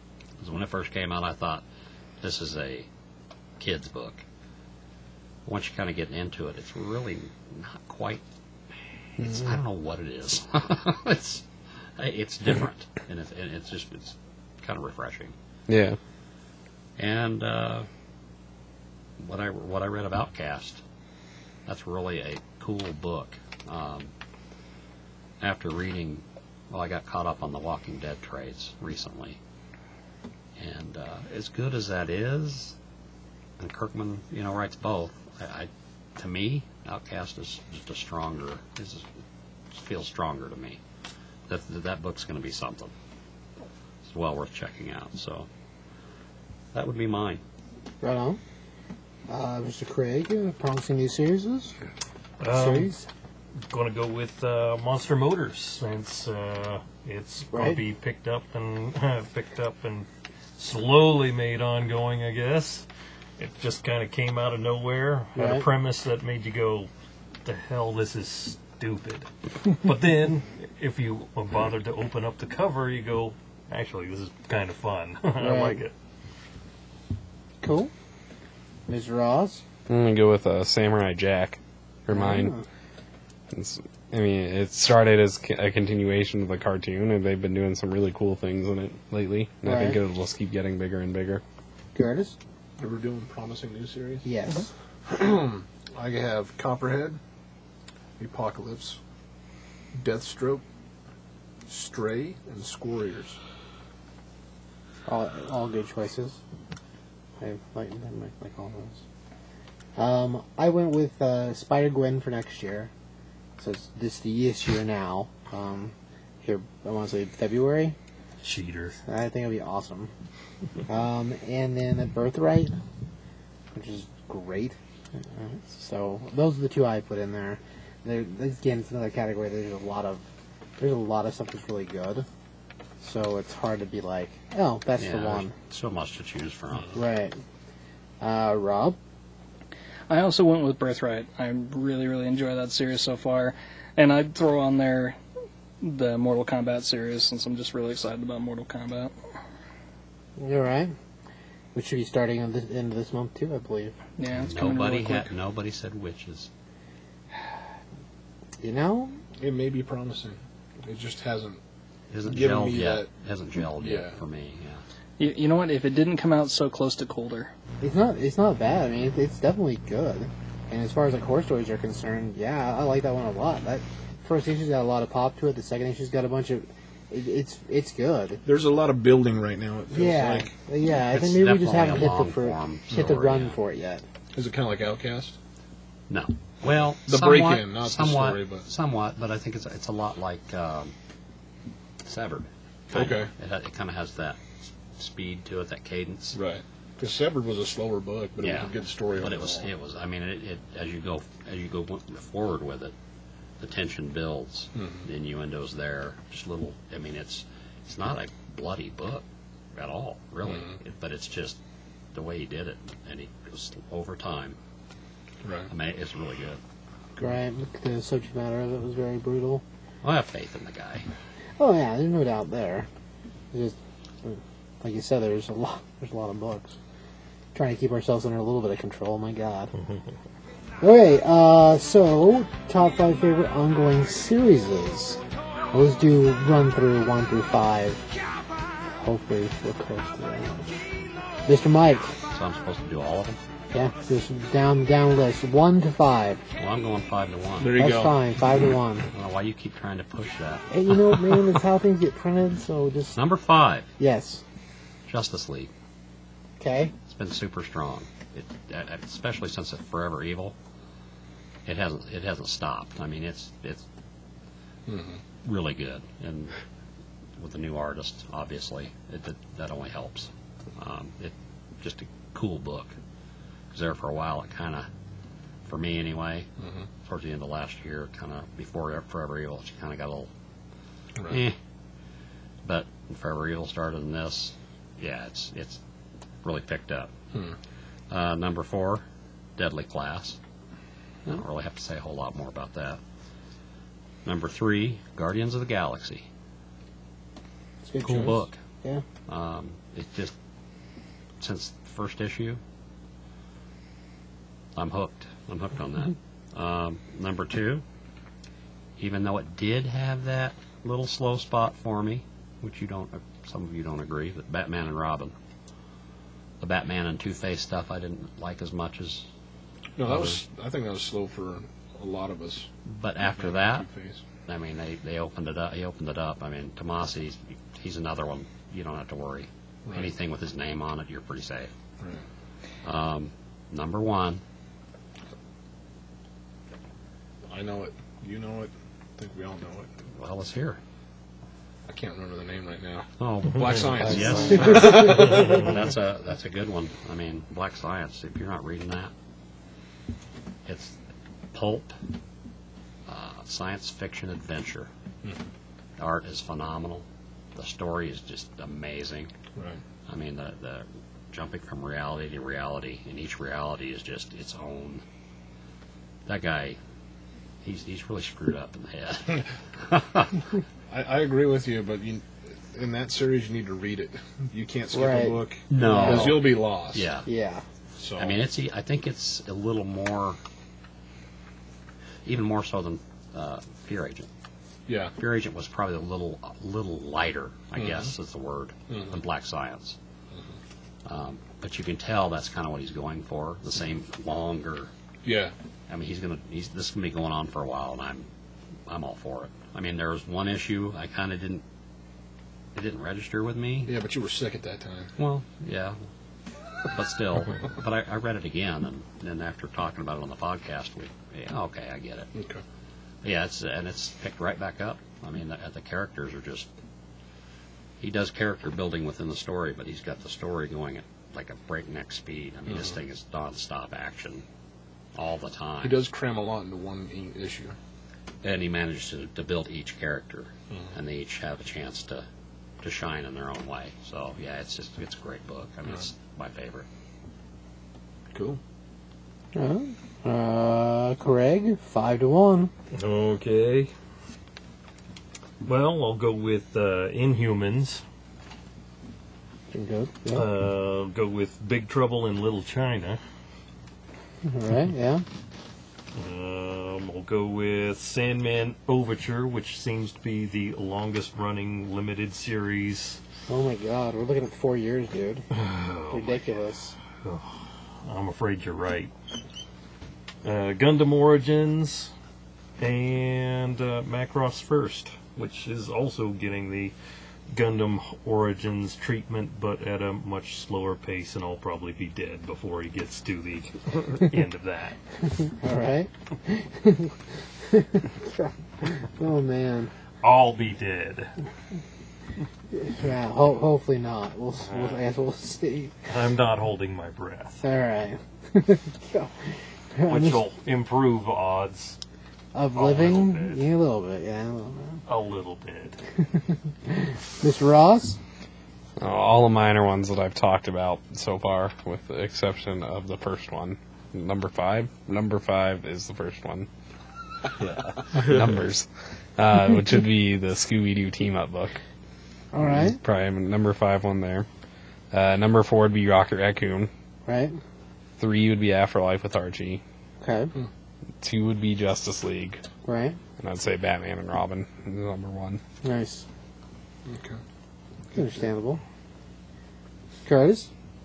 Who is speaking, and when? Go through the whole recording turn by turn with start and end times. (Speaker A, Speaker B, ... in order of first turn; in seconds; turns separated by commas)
Speaker A: 0.4-1.6, Speaker A: 2.2-2.9, Speaker A: 3.6-4.2, Speaker A: 5.5-8.2, Speaker A: 9.2-11.5, Speaker A: 12.0-15.3, Speaker B: 15.7-16.0, Speaker A: 17.0-17.9, Speaker A: 19.2-20.8, Speaker A: 21.7-24.1, Speaker A: 25.4-29.4, Speaker A: 30.6-32.8, Speaker A: 33.6-39.1, Speaker A: 39.7-40.8, Speaker A: 41.5-42.9, Speaker A: 44.0-45.5, Speaker A: 46.7-47.4, Speaker C: 48.0-48.4, Speaker C: 49.3-51.8, Speaker D: 52.4-52.9, Speaker C: 52.5-53.1, Speaker D: 53.7-62.9, Speaker C: 57.5-57.8, Speaker D: 63.4-66.9, Speaker C: 65.4-65.7, Speaker D: 67.5-75.9, Speaker C: 75.4-75.8, Speaker C: 77.6-77.9, Speaker C: 78.9-79.6, Speaker B: 79.9-82.5, Speaker C: 82.1-82.6, Speaker B: 83.5-91.4, Speaker C: 89.6-90.0, Speaker C: 92.0-92.3, Speaker E: 92.8-94.2, Speaker C: 94.2-94.7, Speaker E: 95.1-97.2, Speaker E: 98.2-99.0, Speaker E: 100.0-100.6, Speaker E: 101.7-103.4, Speaker C: 105.1-106.4, Speaker C: 107.4-109.0, Speaker C: 110.0-112.9, Speaker C: 113.6-118.0, Speaker D: 118.4-119.0, Speaker C: 119.1-120.1, Speaker C: 120.9-122.8, Speaker C: 123.7-124.8, Speaker C: 125.3-130.2, Speaker C: 130.8-132.3, Speaker C: 133.0-135.5, Speaker A: 135.0-137.0, Speaker C: 136.9-137.4, Speaker C: 138.2-139.0, Speaker F: 140.1-145.2, Speaker F: 145.8-149.1, Speaker C: 150.4-150.9, Speaker C: 151.7-153.9, Speaker F: 154.2-155.3, Speaker A: 154.3-156.5, Speaker C: 158.6-159.2, Speaker E: 159.4-161.6, Speaker A: 162.1-164.8, Speaker E: 162.2-163.1, Speaker E: 163.8-164.2, Speaker F: 165.2-167.5, Speaker C: 167.8-178.4, Speaker E: 178.4-180.6, Speaker C: 179.9-184.0, Speaker A: 181.1-183.6, Speaker E: 184.3-185.4, Speaker A: 186.1-190.9, Speaker E: 186.7-188.7, Speaker A: 192.0-194.4, Speaker E: 192.9-193.3, Speaker A: 195.0-196.4, Speaker E: 196.3-199.7, Speaker A: 198.4-202.9, Speaker A: 203.6-209.2, Speaker E: 204.8-205.1, Speaker A: 209.8-211.6, Speaker E: 210.4-210.8, Speaker A: 212.1-214.6, Speaker E: 215.4-215.7, Speaker A: 215.7-216.6, Speaker C: 217.2-219.6, Speaker A: 220.0-221.1, Speaker C: 221.6-222.9, Speaker C: 223.5-226.7, Speaker C: 227.6-229.7, Speaker C: 230.8-235.2, Speaker C: 235.7-238.0, Speaker C: 238.9-240.7, Speaker C: 241.5-242.2, Speaker A: 242.3-243.4, Speaker C: 243.7-246.4, Speaker A: 246.6-247.8, Speaker E: 247.6-248.2, Speaker C: 247.8-249.1, Speaker A: 249.1-251.4, Speaker C: 250.7-253.2, Speaker A: 253.1-253.9, Speaker C: 254.0-254.4, Speaker A: 255.1-255.7, Speaker C: 256.6-256.9, Speaker A: 257.1-260.6, Speaker A: 261.7-263.8, Speaker E: 264.9-265.2, Speaker A: 265.4-266.6, Speaker A: 267.4-273.0, Speaker A: 273.7-274.9, Speaker A: 275.7-276.5, Speaker E: 276.6-276.9, Speaker A: 277.0-280.3, Speaker A: 281.3-281.6, Speaker A: 282.6-285.8, Speaker A: 286.4-287.1, Speaker A: 288.1-289.0, Speaker A: 289.6-290.4, Speaker A: 291.3-293.0, Speaker A: 294.2-296.3, Speaker C: 297.9-299.0, Speaker A: 298.0-298.6, Speaker A: 299.3-300.4, Speaker A: 301.4-302.6, Speaker A: 304.8-307.8, Speaker A: 309.0-315.3, Speaker A: 316.6-319.3, Speaker E: 320.0-322.7, Speaker A: 320.1-320.4, Speaker A: 322.9-323.9, Speaker E: 323.2-324.2, Speaker A: 324.5-331.7, Speaker E: 329.9-330.1, Speaker A: 332.9-334.4, Speaker E: 337.5-340.0, Speaker A: 340.2-340.8, Speaker E: 341.9-345.8, Speaker A: 343.2-349.1, Speaker C: 344.6-344.9, Speaker A: 350.7-351.0, Speaker A: 351.5-351.9, Speaker A: 353.1-354.9, Speaker A: 356.0-359.3, Speaker A: 360.1-365.0, Speaker A: 366.3-366.8, Speaker A: 367.6-370.4, Speaker E: 370.9-377.2, Speaker C: 374.9-376.5, Speaker A: 375.7-377.3, Speaker C: 377.3-377.6, Speaker E: 378.0-378.4, Speaker A: 378.2-380.4, Speaker A: 382.2-384.3, Speaker E: 384.9-385.1, Speaker A: 385.2-390.0, Speaker E: 387.8-388.1, Speaker E: 388.9-389.2, Speaker A: 391.1-394.9, Speaker E: 395.2-395.5, Speaker A: 395.9-398.3, Speaker A: 398.9-401.6, Speaker A: 402.8-403.9, Speaker E: 403.9-405.1, Speaker A: 405.2-406.0, Speaker A: 406.9-412.3, Speaker E: 412.3-412.6, Speaker A: 413.2-416.7, Speaker A: 418.0-424.4, Speaker E: 422.7-423.0, Speaker A: 425.1-426.0, Speaker E: 425.8-427.8, Speaker A: 428.4-432.3, Speaker A: 432.8-436.9, Speaker E: 438.3-438.6, Speaker C: 439.6-442.7, Speaker D: 442.9-443.9, Speaker D: 445.6-448.0, Speaker C: 449.7-450.5, Speaker D: 450.3-453.2, Speaker C: 454.4-455.2, Speaker D: 456.1-463.2, Speaker C: 463.5-465.4, Speaker D: 465.5-466.4, Speaker C: 466.1-466.9, Speaker D: 467.2-469.1, Speaker D: 470.4-472.1, Speaker D: 472.8-476.9, Speaker D: 477.5-485.0, Speaker C: 485.6-487.1, Speaker C: 487.7-489.9, Speaker D: 490.2-491.3, Speaker C: 492.7-495.9, Speaker D: 494.7-495.0, Speaker D: 496.1-497.6, Speaker C: 497.6-499.3, Speaker C: 499.9-500.4, Speaker D: 500.1-502.0, Speaker C: 502.5-505.0, Speaker D: 502.7-503.6, Speaker D: 505.1-506.0, Speaker C: 506.9-508.2, Speaker B: 509.0-516.7, Speaker B: 518.1-521.8, Speaker C: 522.5-523.0, Speaker B: 522.6-524.5, Speaker B: 525.1-526.9, Speaker C: 527.3-527.6, Speaker B: 528.2-529.8, Speaker C: 530.2-530.5, Speaker B: 531.2-532.6, Speaker C: 532.9-533.2, Speaker B: 533.4-535.6, Speaker C: 535.8-536.3, Speaker E: 537.1-537.4, Speaker C: 538.2-538.8, Speaker C: 540.2-540.7